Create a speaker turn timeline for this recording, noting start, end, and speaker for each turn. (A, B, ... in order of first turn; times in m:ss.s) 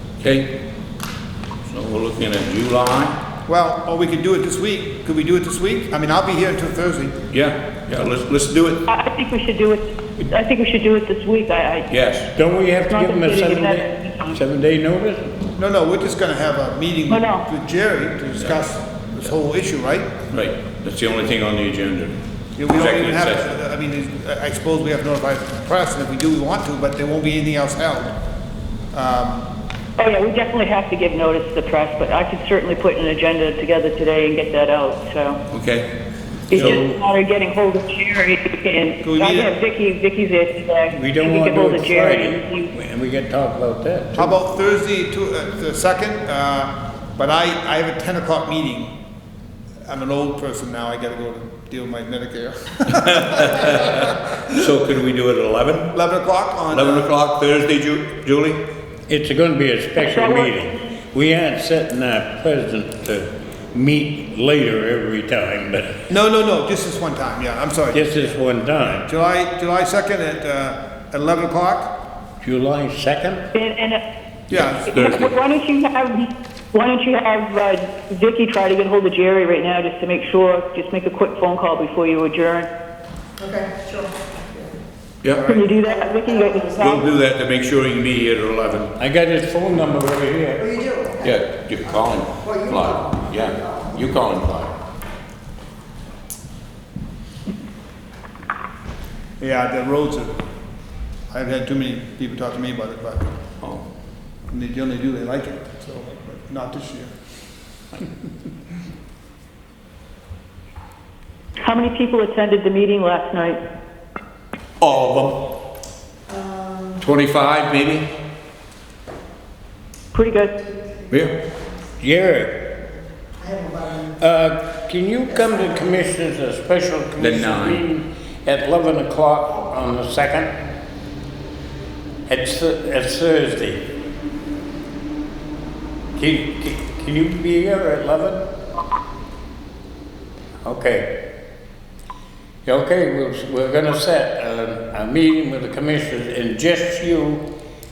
0:00.2-0:00.5 A
0:01.6-0:03.2 A
0:03.5-0:07.2 B
0:07.3-0:08.8 A
0:08.9-0:11.9 C
0:11.9-0:12.3 A
0:12.3-0:15.3 D
0:12.9-0:14.4 C
0:15.6-0:20.1 B
0:17.1-0:17.4 C
0:20.3-0:22.2 A
0:22.6-0:28.1 B
0:22.7-0:23.4 A
0:28.9-0:29.4 B
0:30.0-0:35.4 C
0:35.5-0:35.9 A
0:36.5-0:42.7 C
0:36.5-0:36.8 A
0:36.5-0:36.9 D
0:39.0-0:39.6 B
0:40.9-0:44.4 D
0:44.2-0:48.9 B
0:49.8-0:54.4 B
0:53.0-0:55.9 A
0:55.9-0:57.1 B
0:56.7-0:58.6 A
0:59.1-1:06.0 D
1:00.0-1:00.8 C
1:06.1-1:08.1 B
1:07.9-1:09.1 D
1:09.0-1:11.9 B
1:12.4-1:13.4 D
1:13.5-1:14.0 C
1:14.5-1:15.3 A
1:14.5-1:14.8 B
1:14.8-1:22.7 C
1:23.4-1:24.7 E
1:25.3-1:25.7 B
1:25.5-1:27.0 C
1:25.8-1:26.9 E
1:26.8-1:28.9 A
1:29.0-1:30.6 D
1:30.6-1:34.2 E
1:31.2-1:34.7 A
1:39.4-1:40.3 B
1:41.3-1:43.3 B
1:44.5-1:47.1 B
1:51.6-1:53.6 C
1:54.8-1:55.4 A
1:56.3-1:57.1 E
1:57.0-1:58.1 A
2:00.1-2:00.5 C
2:00.6-2:01.6 E
2:01.1-2:01.3 A
2:02.0-2:02.6 D
2:03.4-2:04.2 E
2:04.2-2:10.5 D
2:05.3-2:05.8 E
2:07.2-2:07.8 A
2:12.3-2:13.8 D
2:16.1-2:18.4 D
2:20.6-2:21.1 D
2:22.6-2:27.4 D